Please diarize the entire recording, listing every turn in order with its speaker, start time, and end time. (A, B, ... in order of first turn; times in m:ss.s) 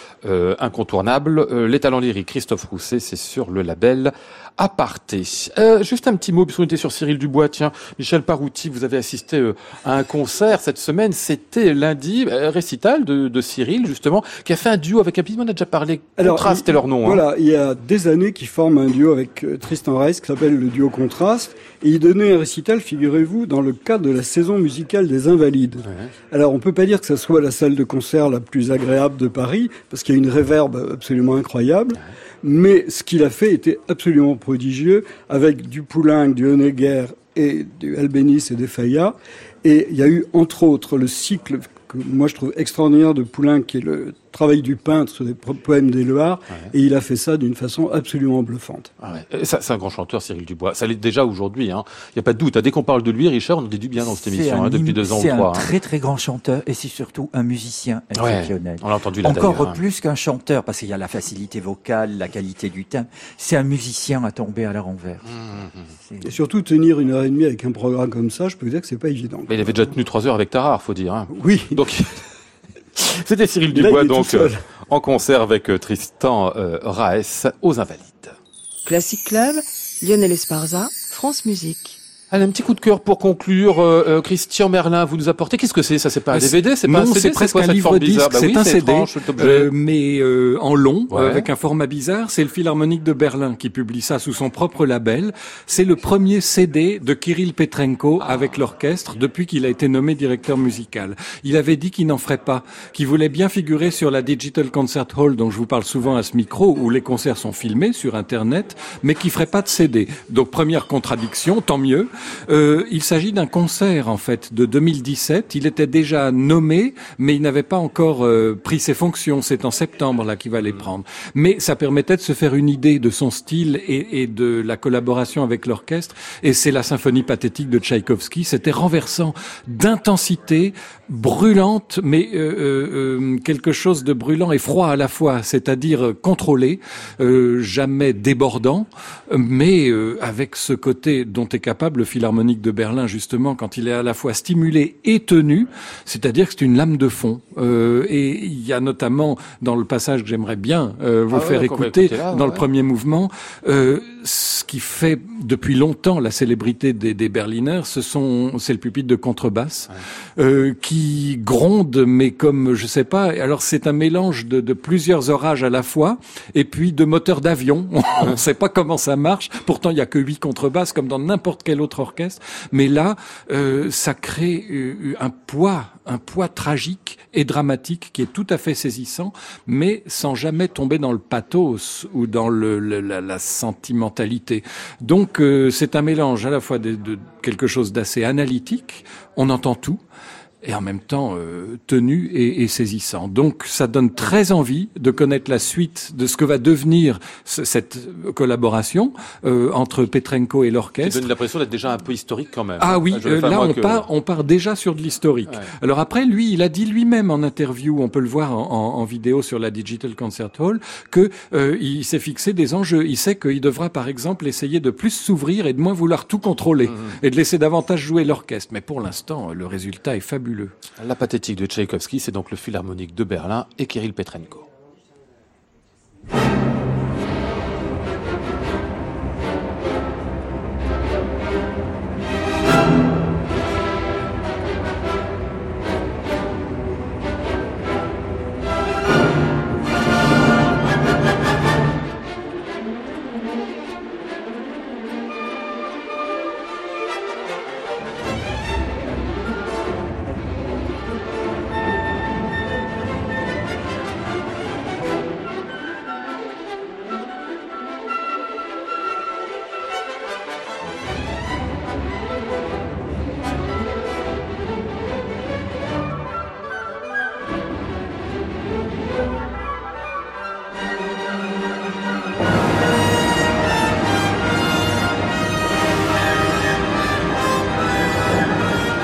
0:00.2-0:17.2 A
0:16.2-0:48.9 B
0:25.9-0:26.1 A
0:49.0-0:55.6 A
0:54.0-1:05.4 C
0:58.2-0:59.8 A
1:05.3-1:05.9 A
1:06.0-1:06.3 C
1:06.2-1:09.6 B
1:09.5-1:12.1 A
1:11.3-1:11.8 B
1:13.0-1:18.3 A
1:13.7-1:14.6 B
1:18.8-1:22.0 D
1:22.3-1:29.7 A
1:26.3-3:10.0 E
1:31.1-1:31.4 A
1:38.2-1:38.5 A
2:31.3-2:32.6 A
3:10.6-3:21.3 E
3:21.0-3:24.0 A
3:22.8-3:40.7 E
3:41.0-3:44.7 A